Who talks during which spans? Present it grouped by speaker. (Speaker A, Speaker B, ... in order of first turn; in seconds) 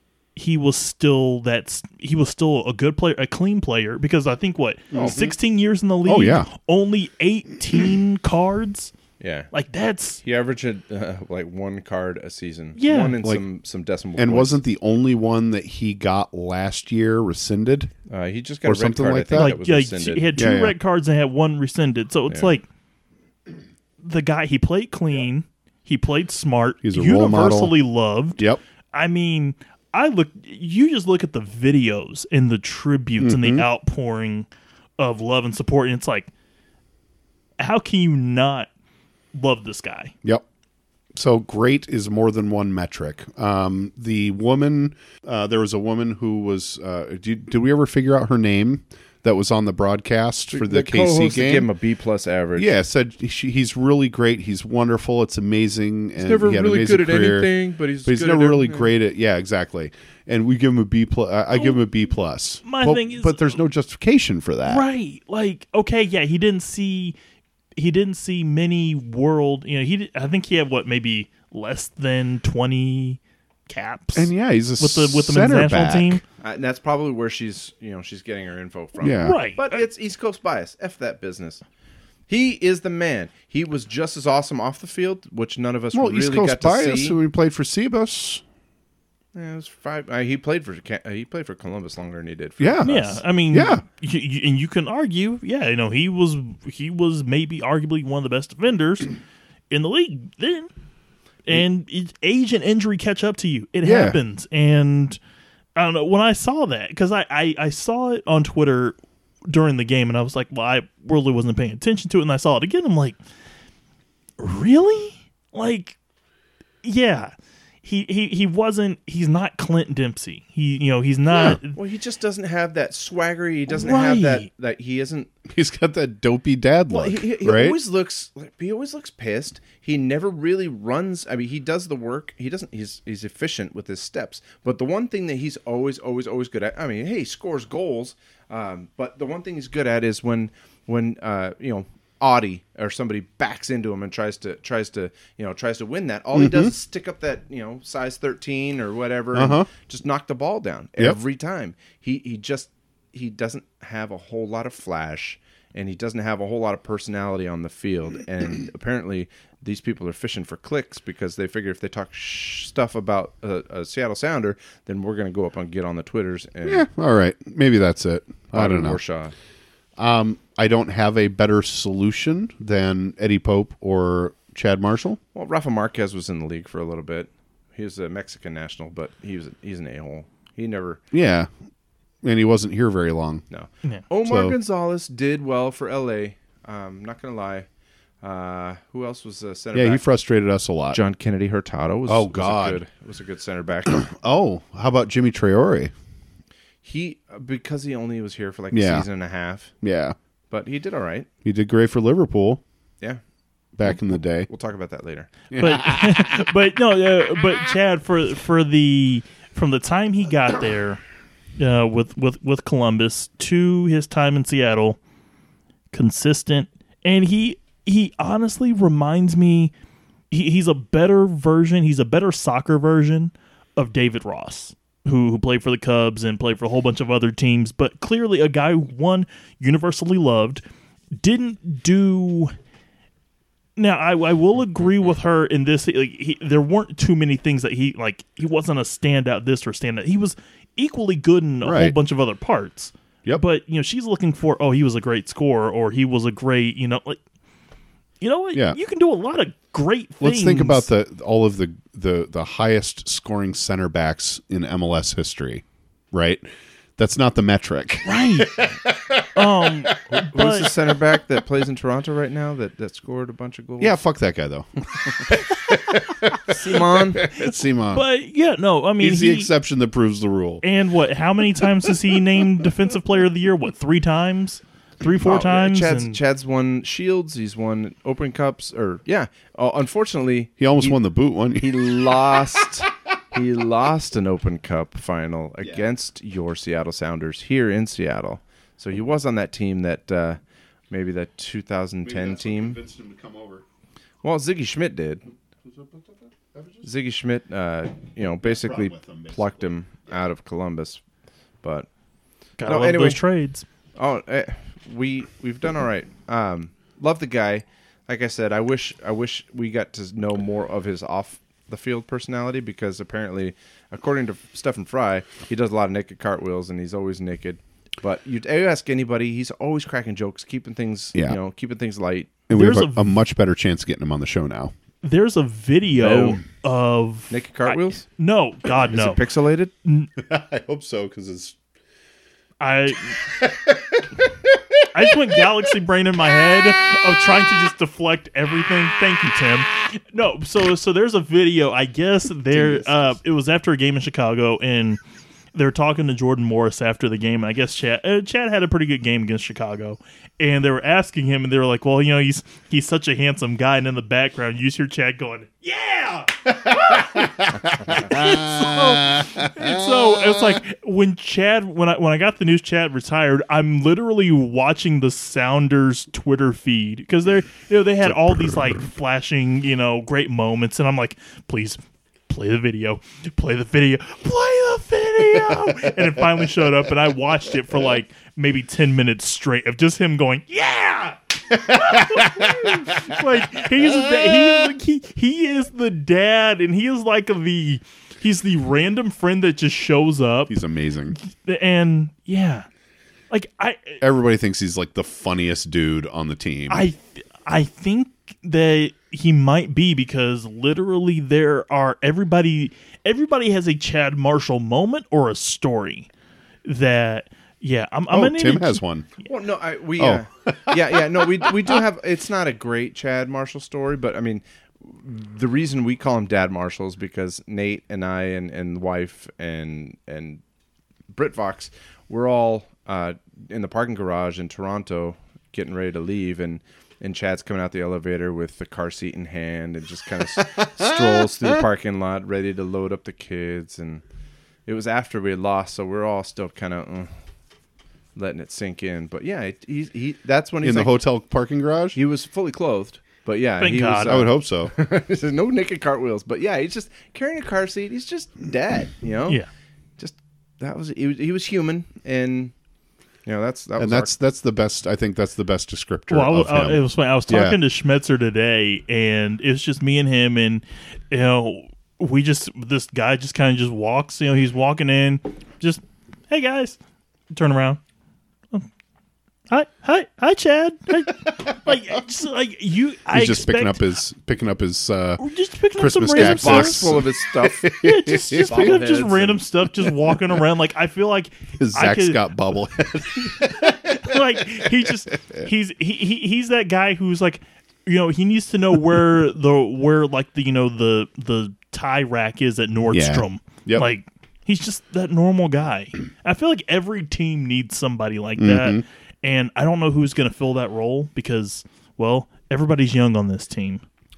Speaker A: 0.4-8.9, 9.5-10.2, 12.8-13.2, 19.4-22.7, 24.0-28.4, 28.9-34.5, 35.0-36.3, 37.6-38.7, 39.3-40.1, 61.5-61.8, 62.6-63.6, 64.7-67.2, 67.8-76.2, 79.2-79.8, 92.8-99.1, 99.7-100.7, 101.5-105.2, 105.8-109.0, 109.5-113.2, 114.4-116.0, 116.8-117.3, 117.8-121.8, 123.7-124.5, 205.6-211.0, 211.6-215.0, 215.9-219.7, 220.3-230.6, 231.2-232.5, 233.8-247.2, 248.2-250.9, 258.1-258.6, 259.4-260.7, 267.9-269.5, 270.6-276.2, 302.6-303.6, 322.5-323.1, 325.0-329.2, 329.9-330.1, 332.6-333.2, 334.9-345.0, 345.6-390.6, 391.2-392.7, 393.3-394.0, 396.7-406.1, 406.6-408.8, 443.6-444.3, 456.1-466.8, 467.3-467.8, 469.5-473.8, 475.2-476.9, 477.7-482.2, 483.3-503.8
Speaker B: 4.9-5.3, 6.1-6.5, 14.2-17.9, 18.6-19.6, 20.4-20.8, 26.8-27.7, 33.2-33.7, 41.1-51.7, 52.6-57.5, 58.0-64.8, 74.2-76.2, 79.0-79.4, 85.9-88.4, 92.6-93.8, 103.8-104.2, 121.3-121.6, 125.5-127.8, 146.3-146.7, 149.3-149.7, 166.7-169.0, 170.0-175.2, 181.1-181.5, 182.2-183.4, 184.2-184.6, 189.7-191.0, 192.1-192.8, 193.9-195.9, 198.7-199.1, 199.8-200.2, 201.4-202.6, 203.8-204.5, 205.5-206.4, 241.6-241.9, 250.2-260.2, 263.8-268.0, 269.0-270.6, 280.6-282.4, 292.0-293.6, 295.7-296.8, 298.4-299.6, 321.1-321.4, 322.5-324.7, 330.2-331.6, 333.2-335.4, 356.5-360.6, 368.1-368.8, 381.5-384.7, 390.5-391.2, 394.0-396.9, 408.1-409.1, 410.0-411.5, 430.4-430.8, 440.6-442.0, 444.1-444.7, 453.8-457.6, 473.1-475.2, 475.8-478.8, 481.6-484.2, 492.9-493.9, 498.4-498.8
Speaker C: 4.9-5.2, 9.2-9.5, 10.2-14.6, 18.1-20.3, 50.5-52.7, 56.2-59.0, 76.4-81.6, 82.3-87.2, 89.3-93.2, 121.7-125.3, 126.9-166.8, 168.5-169.3, 175.3-181.0, 183.5-187.7, 188.2-190.0, 190.9-194.0, 196.8-199.7, 200.5-201.3, 203.8-205.3, 260.1-264.0, 266.5-267.3, 275.2-281.0, 281.6-290.4, 290.9-292.8, 294.2-295.2, 296.8-301.0, 301.6-301.9, 302.6-303.2, 303.9-322.4, 326.0-326.4, 327.3-328.1, 328.9-329.7, 342.5-342.9, 409.2-420.4, 421.1-434.0, 434.7-437.1, 438.2-441.0, 441.9-449.4, 450.0-452.5, 453.2-454.1, 476.1-477.7, 478.4-479.5